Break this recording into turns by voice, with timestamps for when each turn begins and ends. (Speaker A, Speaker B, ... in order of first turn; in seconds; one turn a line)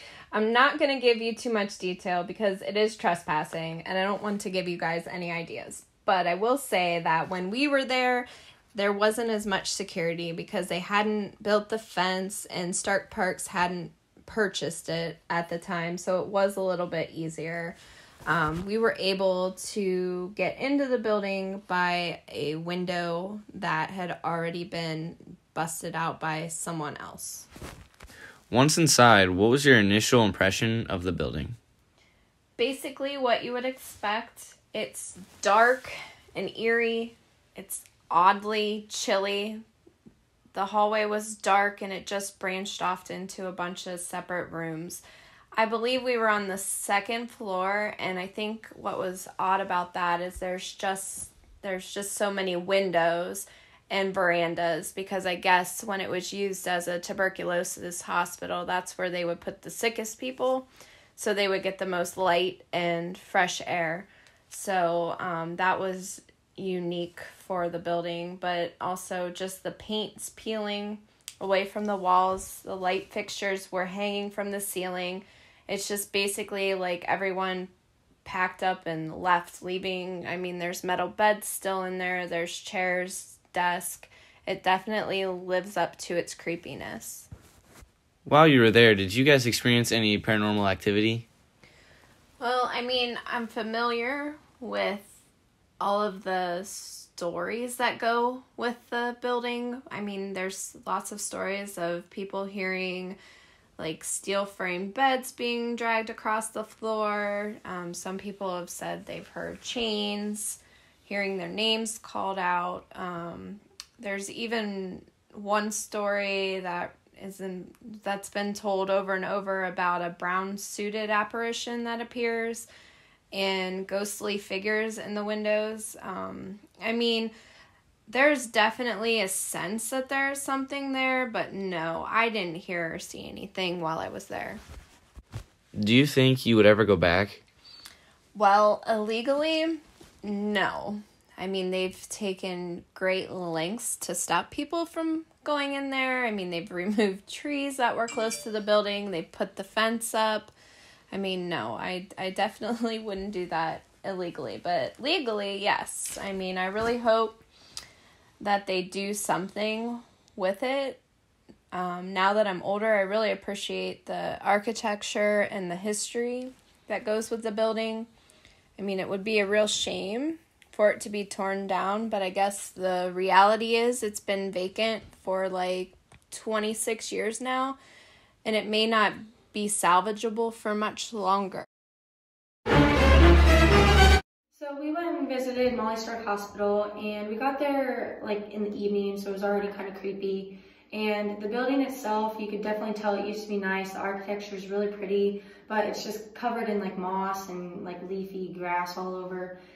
Speaker A: 0.3-27.5
Speaker B: 28.5-31.6
Speaker A: 32.6-39.6
Speaker A: 40.5-45.0
Speaker A: 45.5-77.7
Speaker A: 78.2-87.3
Speaker B: 88.2-91.3
Speaker A: 92.4-95.2
Speaker A: 95.8-103.2
Speaker A: 103.8-122.7
Speaker A: 123.3-127.3
Speaker A: 128.1-134.6
Speaker B: 135.8-137.4
Speaker A: 138.3-150.5
Speaker A: 151.1-157.4
Speaker A: 158.4-161.0
Speaker A: 161.7-168.1
Speaker A: 168.8-177.8
Speaker A: 178.4-181.7
Speaker C: 184.5-199.6